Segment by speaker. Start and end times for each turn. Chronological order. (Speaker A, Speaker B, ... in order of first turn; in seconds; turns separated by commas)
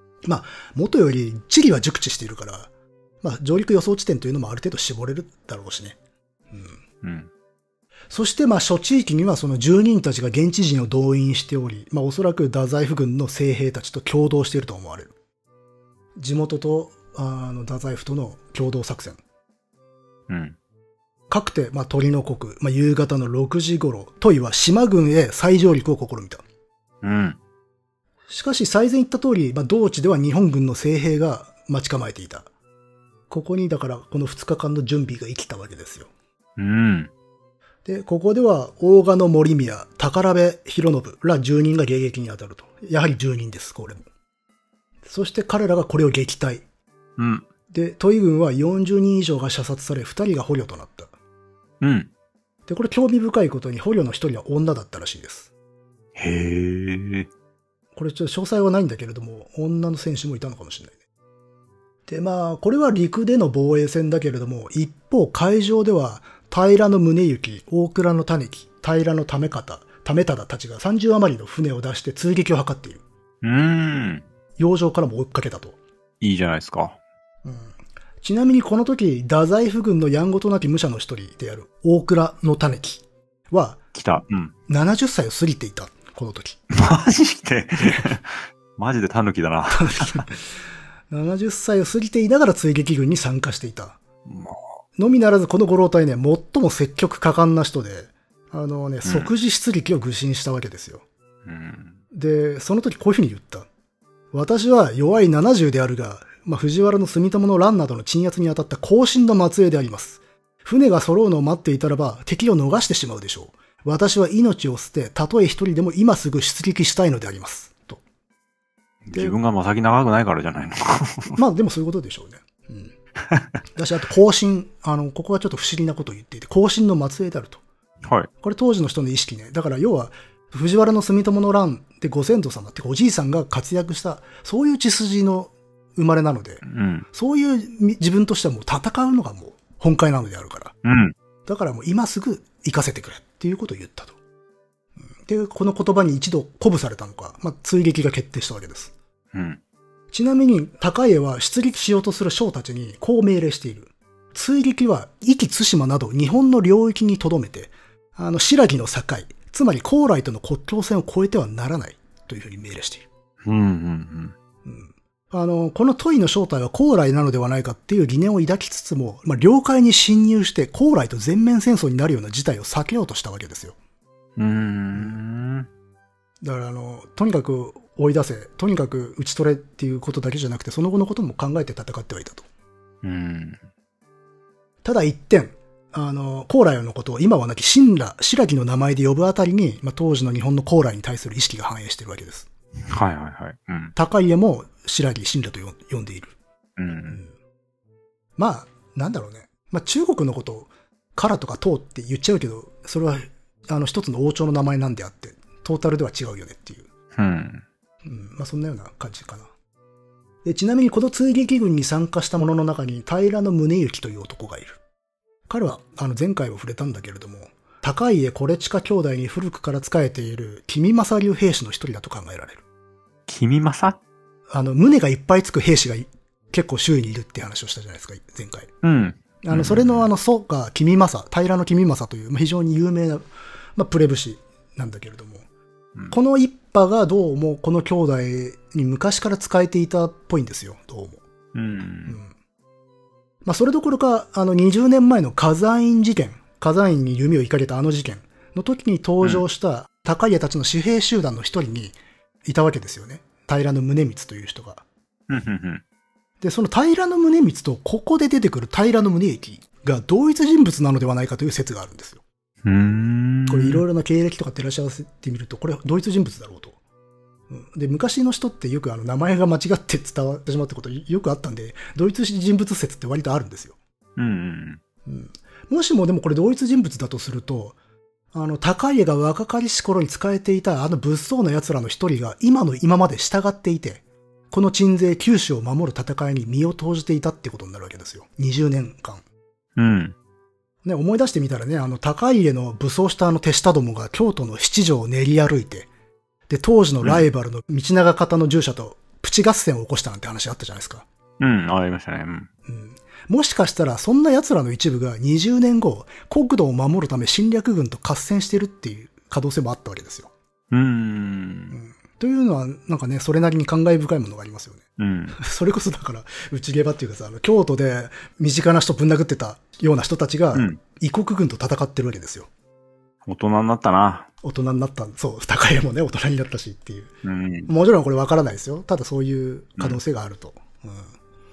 Speaker A: 0.2-2.7, Speaker A: 3.2-6.0, Speaker A: 6.5-6.8, Speaker B: 7.0-7.3, Speaker A: 8.1-15.1, Speaker A: 16.2-19.2, Speaker B: 20.3-20.6, Speaker A: 21.3-26.4, Speaker B: 27.0-27.4, Speaker A: 28.3-32.5, Speaker A: 33.3-36.1, Speaker B: 36.6-37.1, Speaker A: 37.8-44.0, Speaker A: 45.0-46.6, Speaker B: 47.2-47.5, Speaker A: 47.7-51.1, Speaker B: 51.8-52.1, Speaker A: 52.7-55.5, Speaker B: 56.1-57.3, Speaker A: 57.9-60.9, Speaker A: 62.1-73.0, Speaker B: 73.4-74.2, Speaker A: 74.6-75.8, Speaker B: 76.2-77.0, Speaker A: 77.4-83.8, Speaker B: 83.9-84.5, Speaker A: 84.7-86.6, Speaker B: 86.7-90.2, Speaker A: 89.7-90.4, Speaker A: 91.1-94.0, Speaker B: 94.2-94.6, Speaker A: 95.0-101.0, Speaker B: 99.0-99.3, Speaker B: 101.4-102.0, Speaker A: 102.1-103.7, Speaker A: 104.3-118.0, Speaker B: 119.0-121.4, Speaker A: 121.3-122.9, Speaker A: 123.7-127.6, Speaker B: 128.0-128.3, Speaker A: 128.4-140.7, Speaker B: 136.6-137.1, Speaker B: 140.8-141.1, Speaker A: 141.4-144.2, Speaker A: 145.2-148.9, Speaker B: 149.3-149.6, Speaker A: 150.1-163.0, Speaker B: 163.4-164.3, Speaker A: 164.6-173.8, Speaker B: 174.4-175.7, Speaker A: 174.9-175.2, Speaker A: 176.4-182.4, Speaker B: 183.0-183.6, Speaker A: 184.8-192.5, Speaker B: 192.9-193.9, Speaker A: 193.9-196.3, Speaker B: 196.8-197.2, Speaker A: 198.4-206.9, Speaker B: 207.1-207.6, Speaker A: 208.0-209.5, Speaker A: 210.4-214.8, Speaker A: 215.5-222.6, Speaker B: 223.3-224.0, Speaker A: 224.5-228.7, Speaker B: 228.8-230.1, Speaker A: 229.4-233.2, Speaker A: 233.8-235.4, Speaker A: 236.1-241.2, Speaker B: 241.5-242.2, Speaker A: 243.4-254.8, Speaker B: 255.3-255.8, Speaker A: 256.4-262.2, Speaker B: 262.6-263.8, Speaker A: 263.5-266.8, Speaker A: 267.5-273.7, Speaker B: 274.1-274.8, Speaker A: 275.1-277.8, Speaker A: 278.3-289.2, Speaker B: 289.8-290.1, Speaker A: 290.8-295.9, Speaker A: 296.5-301.0, Speaker B: 301.4-302.5, Speaker A: 302.6-310.3, Speaker B: 310.7-311.7, Speaker A: 311.7-314.8, Speaker B: 315.0-315.4, Speaker A: 315.3-322.5, Speaker B: 320.5-320.8, Speaker B: 323.2-324.3, Speaker A: 324.4-327.1, Speaker B: 327.2-327.7, Speaker A: 327.7-331.1